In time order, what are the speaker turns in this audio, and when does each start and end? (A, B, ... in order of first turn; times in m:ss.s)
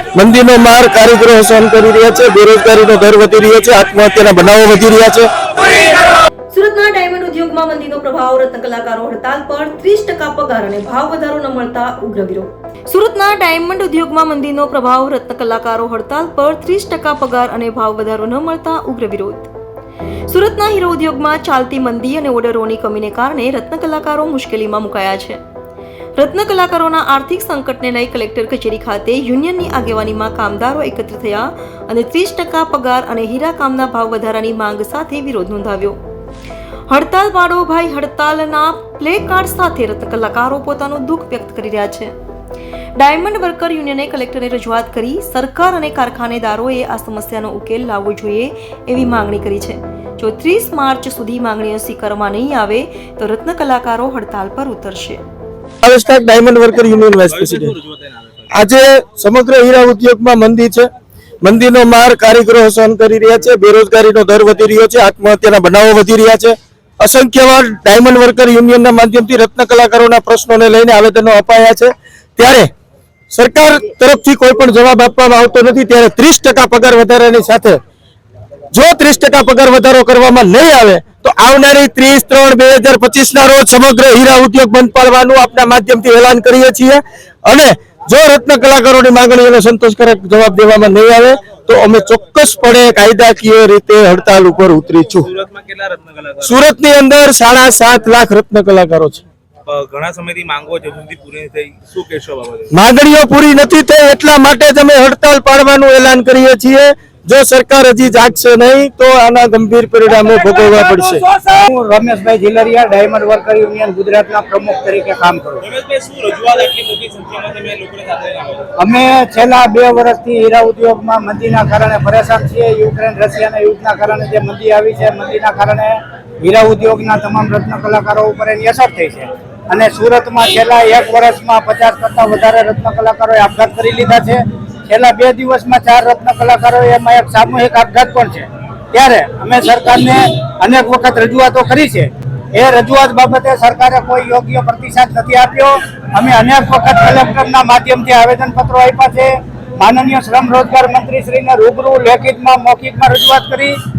0:00.1-0:05.3 A
0:05.7-0:19.5 B
0:20.3-0:25.4 B
0:26.2-0:36.0 B
0:36.9-0:42.1 B
0:43.0-0:55.2 B
0:55.8-0:57.7 A
0:57.3-0:58.4 C
0:58.5-1:00.9 A
1:01.4-1:12.7 A
1:13.3-1:17.8 A
1:18.7-1:35.3 A
1:35.2-1:36.6 C
1:36.4-1:39.2 A
1:39.6-1:42.7 C
1:42.7-1:51.2 A
1:51.4-1:55.6 D
1:55.6-1:58.7 C
1:58.8-2:33.7 D